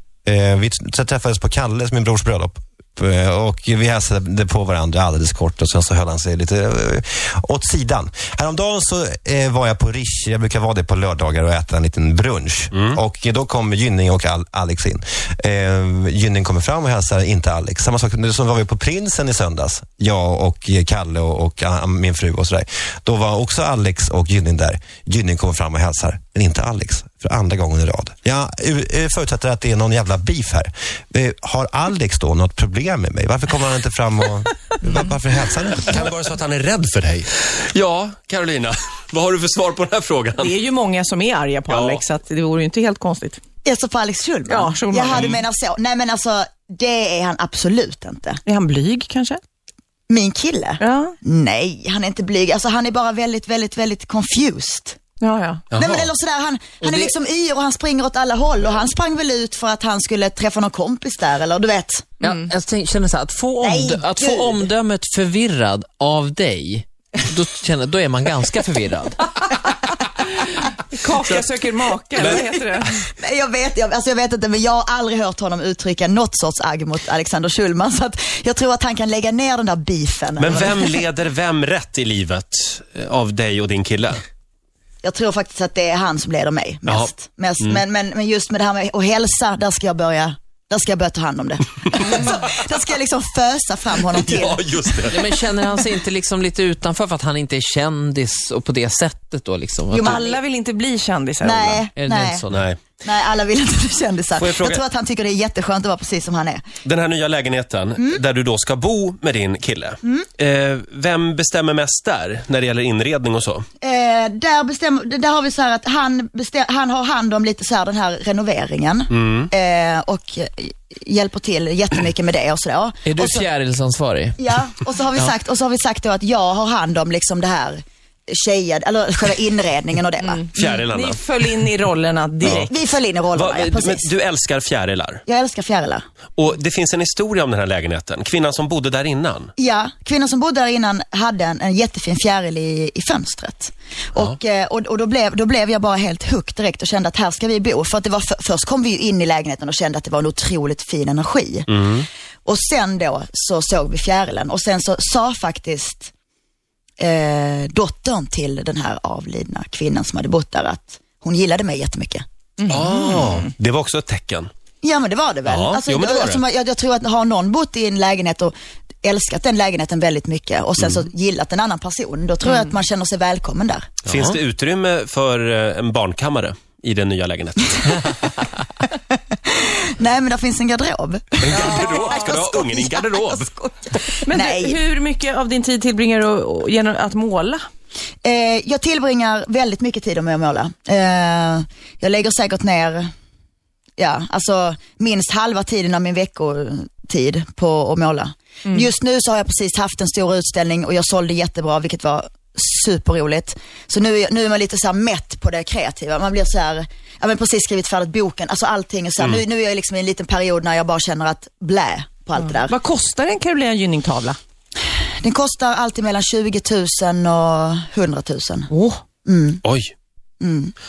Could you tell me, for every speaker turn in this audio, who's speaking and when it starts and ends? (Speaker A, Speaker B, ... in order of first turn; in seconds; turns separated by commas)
Speaker A: 0.2-36.0, Speaker B: 12.7-13.0, Speaker B: 35.7-40.6, Speaker C: 40.4-43.4, Speaker B: 41.7-42.0, Speaker D: 43.6-48.4, Speaker C: 44.5-45.3, Speaker C: 48.5-49.4, Speaker D: 50.1-55.0, Speaker C: 50.8-51.1, Speaker C: 55.2-55.6, Speaker B: 55.7-56.1, Speaker D: 55.8-62.1, Speaker E: 56.8-57.1, Speaker E: 62.2-69.2, Speaker C: 62.2-62.5, Speaker D: 63.6-64.7, Speaker C: 70.9-73.0, Speaker B: 71.2-71.5, Speaker B: 72.1-72.4, Speaker D: 73.2-81.0, Speaker B: 80.4-84.2, Speaker D: 85.0-95.4, Speaker B: 94.1-95.3, Speaker E: 95.1-100.2, Speaker D: 99.9-100.4, Speaker C: 100.1-101.9, Speaker D: 101.4-102.5, Speaker E: 102.0-102.7, Speaker B: 102.5-102.8, Speaker D: 103.0-106.6, Speaker B: 104.4-104.8, Speaker B: 106.8-113.6, Speaker D: 110.0-110.3, Speaker D: 113.8-123.5, Speaker B: 119.1-119.5, Speaker E: 123.1-124.4, Speaker D: 124.4-130.5, Speaker C: 130.2-132.7, Speaker B: 130.6-131.6, Speaker B: 132.4-132.7, Speaker D: 132.5-134.1, Speaker B: 133.3-135.2, Speaker D: 135.3-136.0, Speaker B: 136.4-139.5, Speaker D: 139.6-151.7, Speaker B: 151.7-152.1, Speaker D: 152.5-156.1, Speaker D: 157.0-162.2, Speaker C: 162.6-163.4, Speaker B: 162.7-164.5, Speaker D: 164.8-173.9, Speaker B: 165.4-166.4, Speaker B: 174.1-178.2, Speaker D: 179.5-184.8, Speaker B: 181.4-183.5, Speaker C: 181.6-182.2, Speaker C: 184.2-187.6, Speaker D: 188.2-193.1, Speaker D: 194.0-212.7, Speaker C: 212.4-214.4, Speaker D: 214.8-218.7, Speaker C: 218.7-219.0, Speaker D: 219.2-219.6, Speaker B: 219.6-219.9, Speaker D: 220.4-220.7